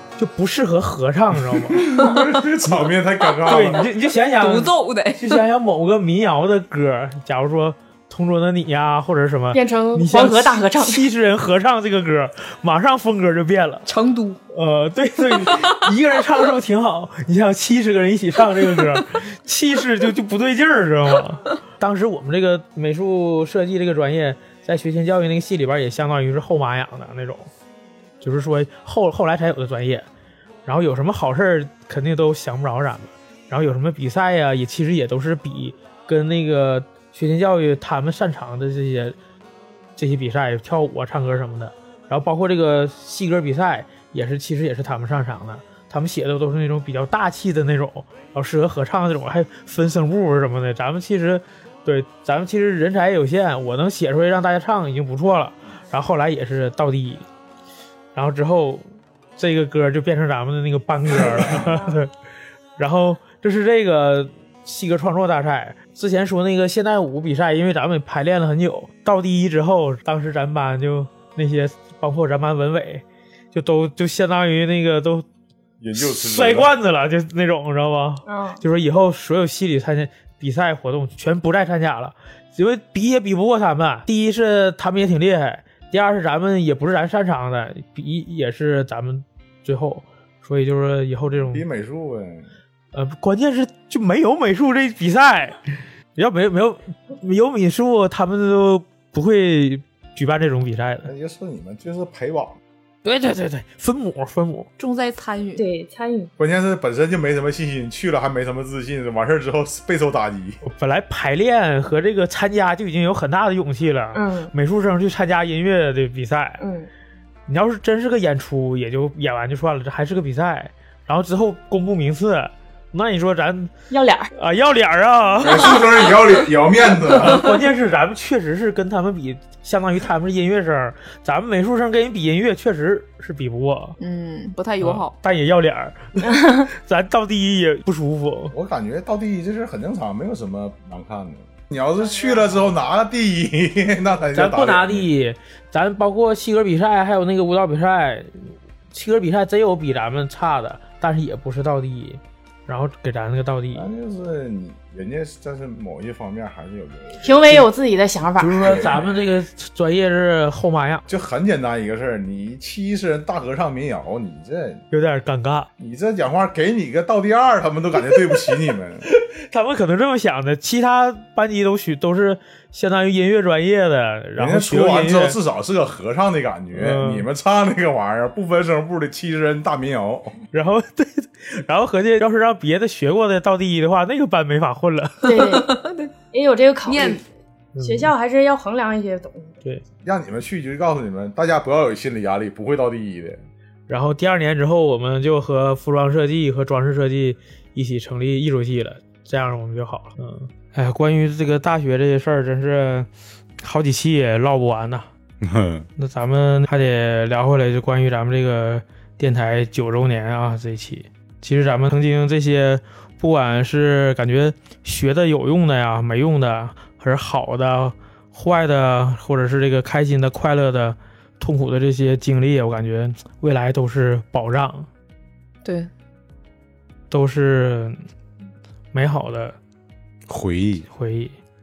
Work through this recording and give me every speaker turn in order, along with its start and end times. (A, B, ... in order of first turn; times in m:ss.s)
0:00.2-0:01.8 A
0:01.8-0:03.8 B
0:03.4-0:13.8 A
0:04.4-0:05.4 C
0:09.5-0:11.0 D
0:13.9-0:14.4 C
0:14.5-0:27.5 A
0:28.2-0:30.1 A
0:30.6-0:39.2 A
0:40.0-0:57.2 A
0:58.1-0:58.8 A
0:59.4-1:02.1 A
1:02.8-1:15.2 A
1:15.8-1:16.7 B
1:15.9-1:31.6 A
1:18.3-1:18.6 D
1:31.5-1:32.5 B
1:32.9-1:41.1 A
1:41.0-1:42.6 B
1:43.0-1:44.7 A
1:44.8-1:45.6 C
1:45.6-1:46.3 D
1:46.4-1:50.6 B
1:50.6-1:56.6 A
1:54.1-1:54.5 D
1:56.6-1:56.9 D
1:57.5-2:03.7 A
2:03.9-2:04.3 D
2:04.3-2:05.8 A
2:05.4-2:07.5 B
2:07.1-2:14.0 A
2:14.0-2:15.1 C
2:14.8-2:18.5 A
2:18.5-2:25.1 B
2:24.3-2:33.8 A
2:33.7-2:37.6 B
2:37.2-2:38.9 D
2:38.4-2:41.0 A
2:38.5-2:38.9 B
2:41.1-2:44.8 B
2:44.9-2:45.7 A
2:45.8-2:49.0 B
2:49.1-2:55.4 A
2:54.4-3:00.4 B
2:56.7-2:57.3 A
3:00.5-3:05.4 A
3:05.2-3:05.7 D
3:05.3-3:06.1 C
3:06.3-3:07.2 D
3:06.9-3:07.2 C
3:07.7-3:08.1 A
3:07.8-3:09.6 D
3:10.0-3:13.4 B
3:13.9-3:23.1 A
3:23.6-3:25.1 A
3:25.4-3:25.9 B
3:26.0-3:44.9 A
3:45.6-3:45.9 C
3:47.1-3:48.0 A
3:48.9-3:49.6 A
3:50.3-3:50.9 B
3:50.9-3:51.4 A